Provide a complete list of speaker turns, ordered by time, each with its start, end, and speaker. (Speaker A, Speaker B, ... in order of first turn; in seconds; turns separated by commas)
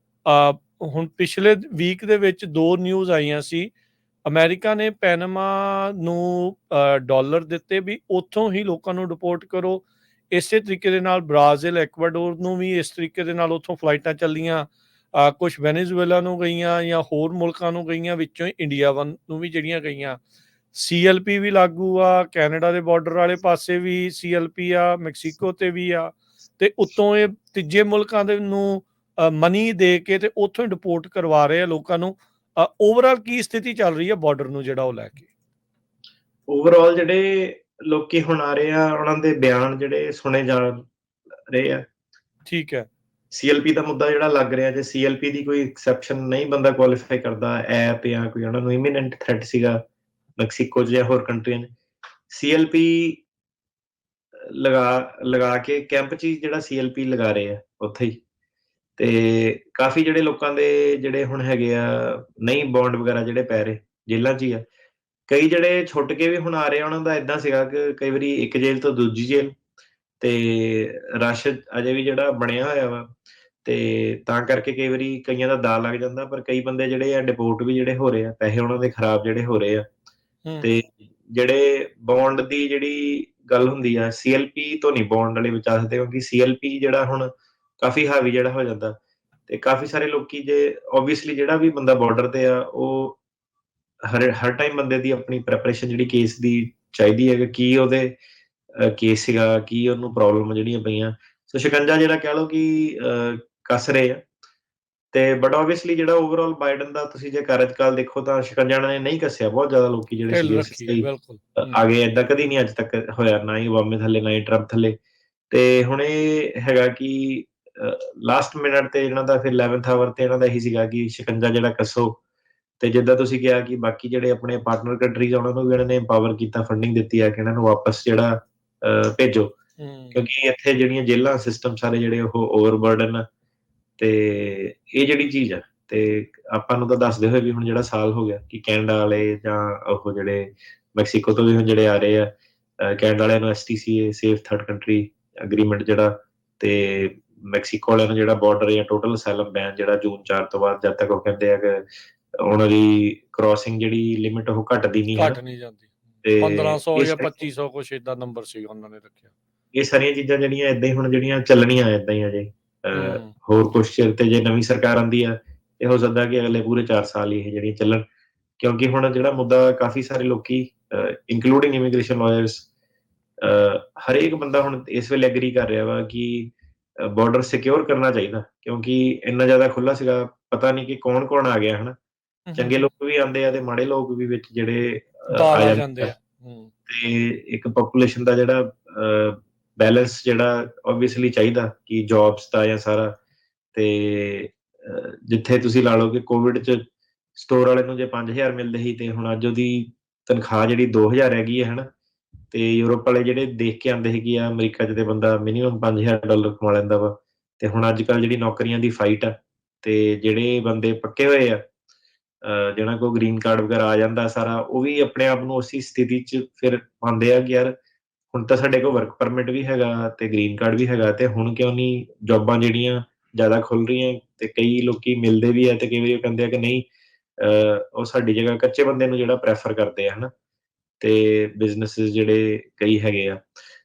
Speaker A: 0.3-3.7, Speaker A: 4.3-20.2, Speaker A: 20.7-35.3, Speaker B: 36.5-40.9, Speaker B: 41.5-41.9, Speaker A: 42.5-42.9, Speaker B: 43.3-49.8, Speaker B: 50.4-51.7, Speaker B: 52.3-53.2, Speaker B: 54.5-58.2, Speaker B: 59.0-64.7, Speaker B: 65.3-69.5, Speaker B: 70.2-79.9, Speaker A: 80.5-80.7, Speaker B: 80.6-89.0, Speaker B: 89.5-93.2, Speaker B: 94.1-98.2, Speaker B: 98.8-104.2, Speaker B: 105.1-115.0, Speaker A: 110.3-111.8, Speaker B: 115.5-122.2, Speaker B: 122.8-129.6, Speaker A: 129.8-130.2, Speaker B: 130.1-133.2, Speaker B: 134.0-151.9, Speaker B: 152.4-155.4, Speaker A: 155.2-159.3, Speaker B: 156.2-157.5, Speaker B: 159.7-168.0, Speaker A: 162.9-163.3, Speaker B: 168.6-172.7, Speaker B: 173.4-182.0, Speaker A: 182.5-182.9, Speaker B: 182.6-186.1, Speaker A: 185.3-186.7, Speaker B: 186.9-193.2, Speaker B: 193.7-196.8, Speaker B: 197.3-201.9, Speaker B: 202.5-211.6, Speaker B: 212.4-217.7, Speaker B: 218.3-226.9, Speaker B: 227.4-230.3, Speaker B: 231.0-233.4